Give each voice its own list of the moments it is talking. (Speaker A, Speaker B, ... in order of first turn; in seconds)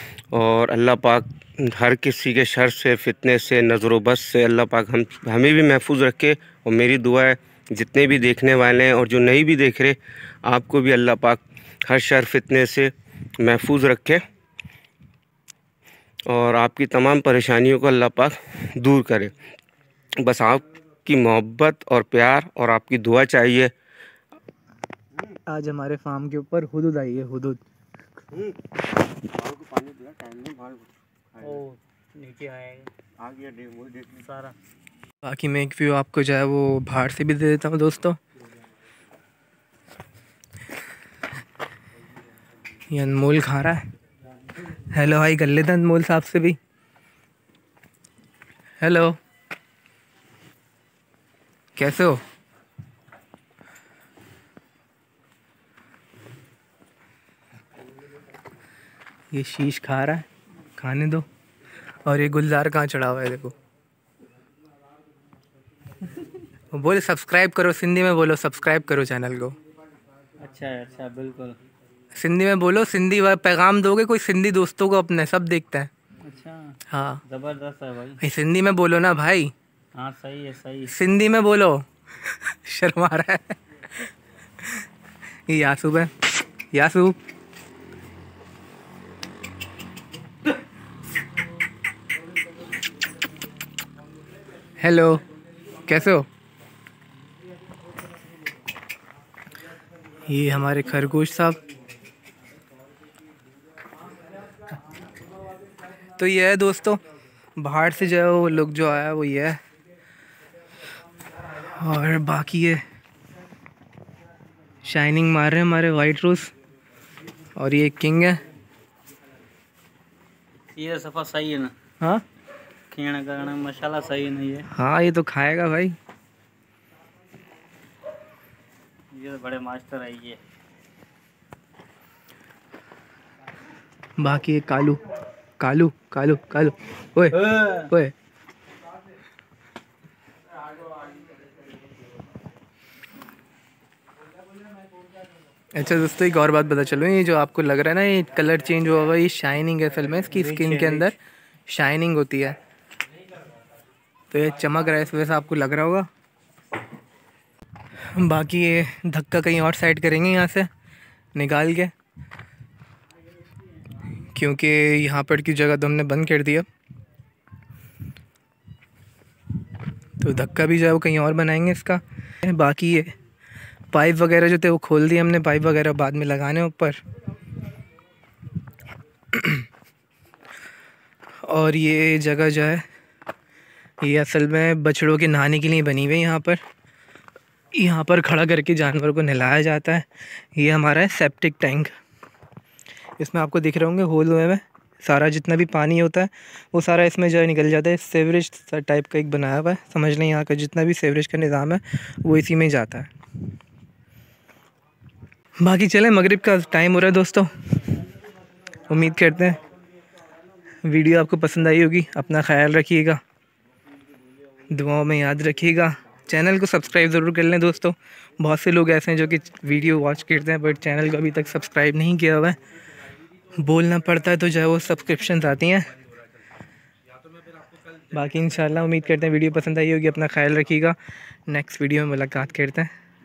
Speaker A: 0.3-14.2, 16.3-19.3, 20.2-23.7, 29.3-30.9, 33.2-33.8
Speaker B: 25.5-27.6, 35.2-38.2, 42.9-43.8, 44.9-46.6, 48.8-49.2, 51.8-52.2, 59.3-60.2, 60.8-61.2, 62.1-63.5, 66.7-69.6, 72.2-75.9, 76.9-77.2, 78.2-79.5, 80.9-83.6, 85.5-86.1, 86.7-87.2, 94.8-95.2, 95.9-96.3, 100.3-101.6, 106.2-107.0, 107.6-109.6, 111.6-112.8, 114.8-116.5, 117.6-118.4, 124.7-126.0, 134.2-135.0, 135.6-138.1, 145.8-151.2, 151.7-152.6, 154.3-156.1, 158.1-160.7, 161.4-161.9, 164.3-166.7, 170.2-173.2, 173.9-177.0, 179.3-179.7, 181.5-182.8, 184.0-186.6, 187.7-191.9, 193.2-203.1, 205.6-207.5, 208.9-209.6, 210.9-213.2, 214.7-222.6, 223.6-225.9, 228.1-231.0, 231.5-232.9
Speaker C: 31.4-32.9, 33.9-34.5, 70.4-71.6, 76.2-78.2, 80.0-80.9, 120.8-121.7, 122.9-124.7, 129.1-130.4, 137.3-137.9, 150.3-151.1